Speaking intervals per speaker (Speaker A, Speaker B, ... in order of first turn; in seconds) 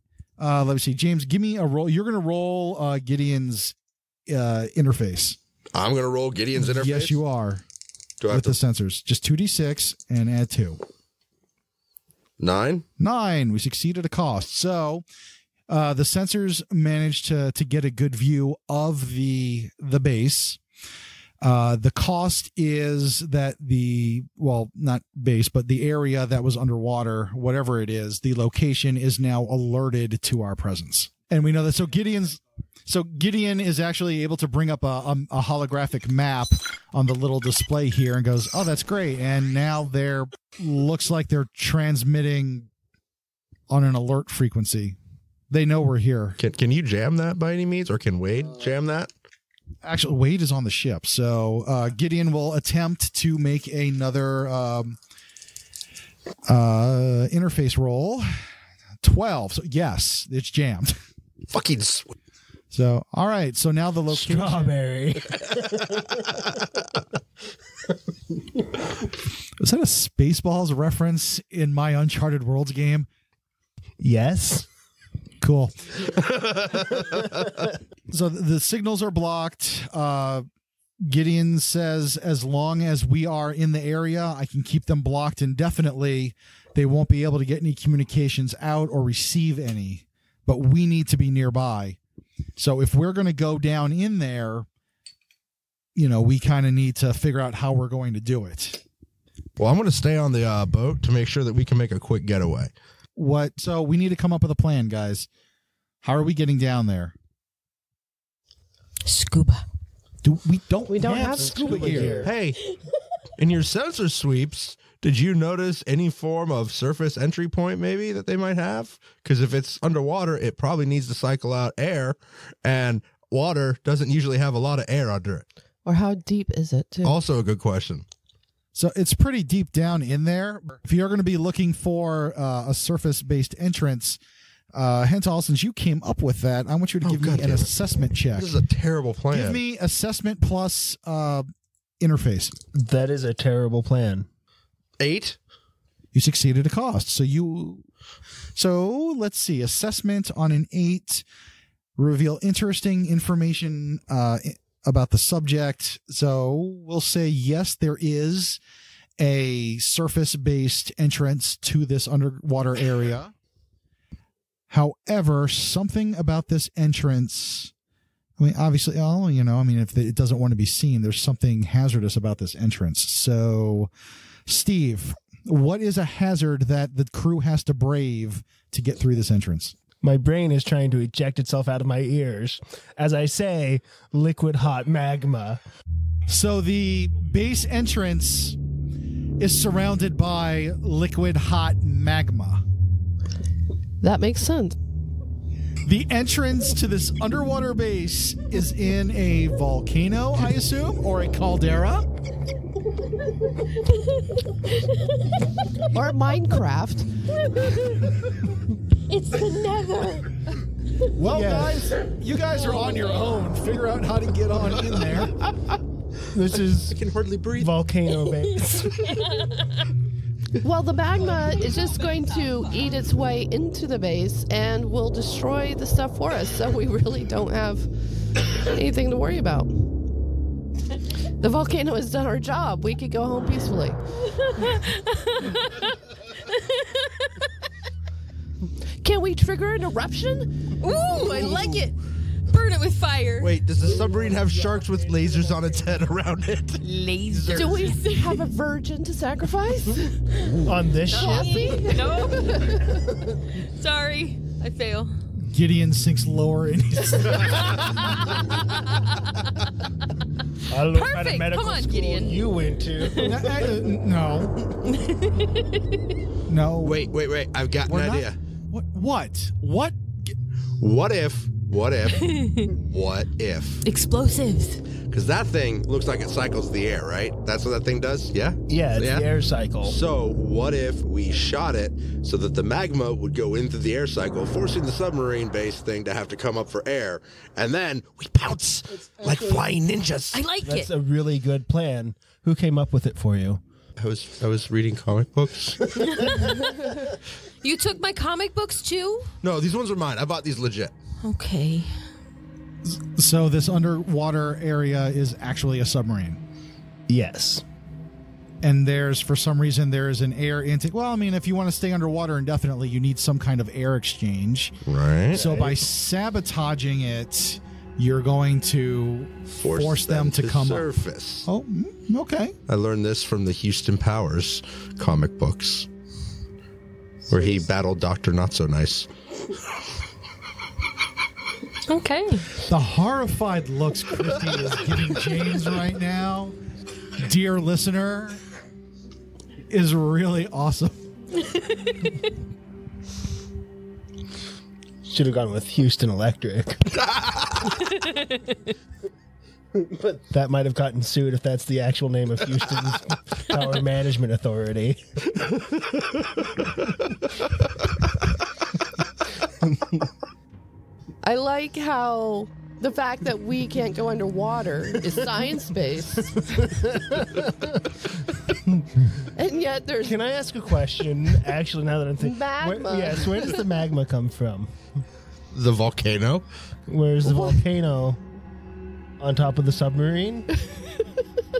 Speaker A: 0.4-3.7, 4.3-5.4, 6.5-7.6, 8.3-10.8, 13.0-15.0, 15.7-20.6, 21.4-42.7, 43.7-45.0, 45.5-46.4, 49.8-55.0, 56.5-58.4, 59.0-61.0, 62.7-64.7, 69.6-73.1, 75.4-76.1, 78.1-80.5, 81.0-92.0, 92.6-94.7, 95.9-98.8, 103.2-105.3, 106.0-107.1, 110.2-112.3, 128.7-134.2, 134.7-138.5, 139.3-141.5, 142.0-142.6, 146.1-147.8, 148.5-151.2, 151.9-158.6, 159.2-163.3, 164.7-167.7, 168.4-173.9, 174.4-179.8, 186.3-188.6, 189.4-192.6, 195.8-202.1, 211.2-215.4, 255.4-258.1, 263.2-264.5, 266.5-267.0, 267.9-270.3, 289.1-289.4, 302.8-306.4, 308.6-314.8, 315.3-320.9, 321.4-322.5, 332.6-336.6, 337.2-338.4, 339.7-341.0
Speaker B: 5.7-7.2, 8.2-8.6, 12.4-12.8, 46.4-49.1, 61.5-62.1, 76.2-77.2, 99.6-102.7, 112.2-112.6, 113.4-125.4, 127.0-128.0, 137.0-139.6, 145.0-145.4, 216.9-217.7, 243.4-248.2, 266.8-268.4, 270.8-273.8, 275.1-279.3, 279.8-290.4, 294.0-295.9, 299.4-300.9, 314.9-315.4, 319.6-321.5, 322.7-325.9, 327.3-329.1, 375.5-376.4
Speaker C: 64.1-65.7, 74.0-74.7, 111.1-112.3, 142.7-144.3, 180.0-185.6, 211.3-211.9, 216.3-217.0, 217.5-219.0, 250.6-251.8, 260.7-263.8, 278.7-280.0, 290.6-293.6, 307.1-307.6, 315.3-315.8, 345.0-346.8, 349.7-355.0, 366.6-367.4, 370.0-374.8, 376.9-378.2, 379.2-380.5
Speaker D: 109.0-109.6, 203.8-205.4, 207.4-208.1, 209.1-210.3, 219.1-219.6, 234.3-237.3, 240.8-242.0, 242.5-243.5, 246.8-248.0, 251.1-252.9, 253.5-255.1, 257.4-259.1, 260.9-263.3, 264.8-266.0, 272.1-272.7, 273.8-274.8, 290.3-290.9, 296.0-297.0, 297.6-299.3, 301.2-301.9, 331.9-332.5, 348.0-348.5
Speaker E: 110.9-112.3, 125.8-127.2, 194.0-194.8, 205.9-207.1, 220.6-227.9, 228.6-229.8, 231.4-234.0, 239.0-240.6, 241.2-241.6, 247.5-250.2, 251.1-253.2, 361.2-366.8, 369.3-370.2, 372.2-373.6, 377.2-377.6